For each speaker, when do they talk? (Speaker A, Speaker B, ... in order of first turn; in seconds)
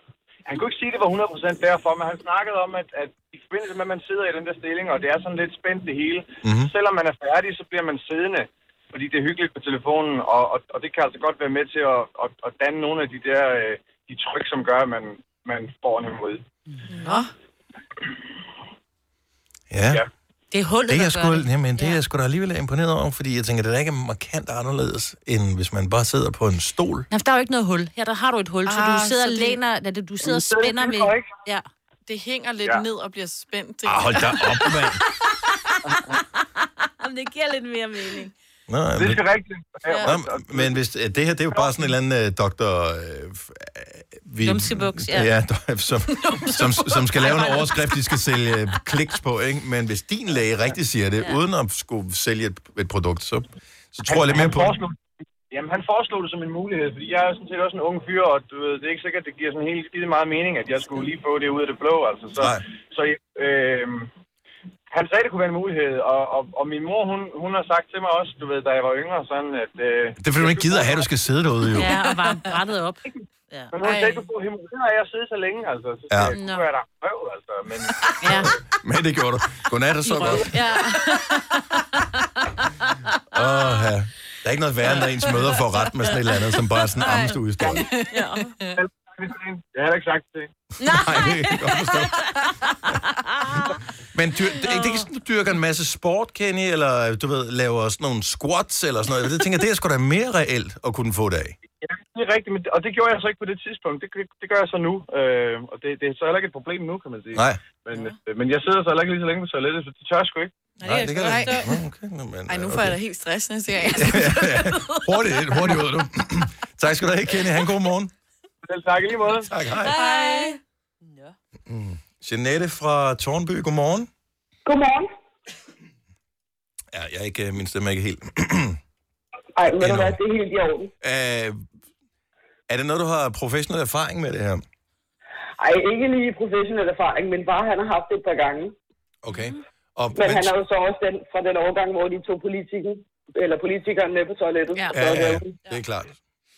Speaker A: 0.5-16.4, 30.3-31.3, 39.0-40.8, 54.1-55.0, 55.5-64.1, 64.9-71.0, 73.7-78.4, 88.8-90.5, 101.8-110.5, 118.7-119.5
Speaker B: 6.4-6.7, 19.7-20.0, 20.9-27.1, 33.9-35.0, 38.7-39.2, 40.1-54.8, 70.2-72.0, 78.8-80.6, 83.3-87.9, 90.9-92.3, 94.1-101.6, 107.3-107.6, 110.8-113.0, 114.0-118.1, 119.5-119.9, 121.7-124.1, 126.9-128.8, 129.8-130.2, 131.0-131.6, 132.7-134.6, 139.2-140.6, 144.9-146.1
Speaker C: 16.9-17.3, 28.7-29.6, 32.1-34.7, 39.9-40.2, 46.2-47.6, 73.8-74.2, 87.1-88.8, 111.2-111.7, 112.5-114.4, 119.9-120.6
Speaker D: 20.5-22.0, 27.1-31.7, 34.6-35.1, 36.1-38.3, 44.4-45.3, 47.2-47.6, 71.8-73.7, 76.3-76.7, 78.2-78.5, 80.1-82.6, 83.4-83.9, 87.7-88.5, 90.9-91.9, 93.4-93.7, 94.7-95.0, 110.8-111.7, 114.2-115.7, 119.8-120.6
Speaker E: 124.7-125.1, 129.6-130.9, 135.6-138.7, 140.2-145.5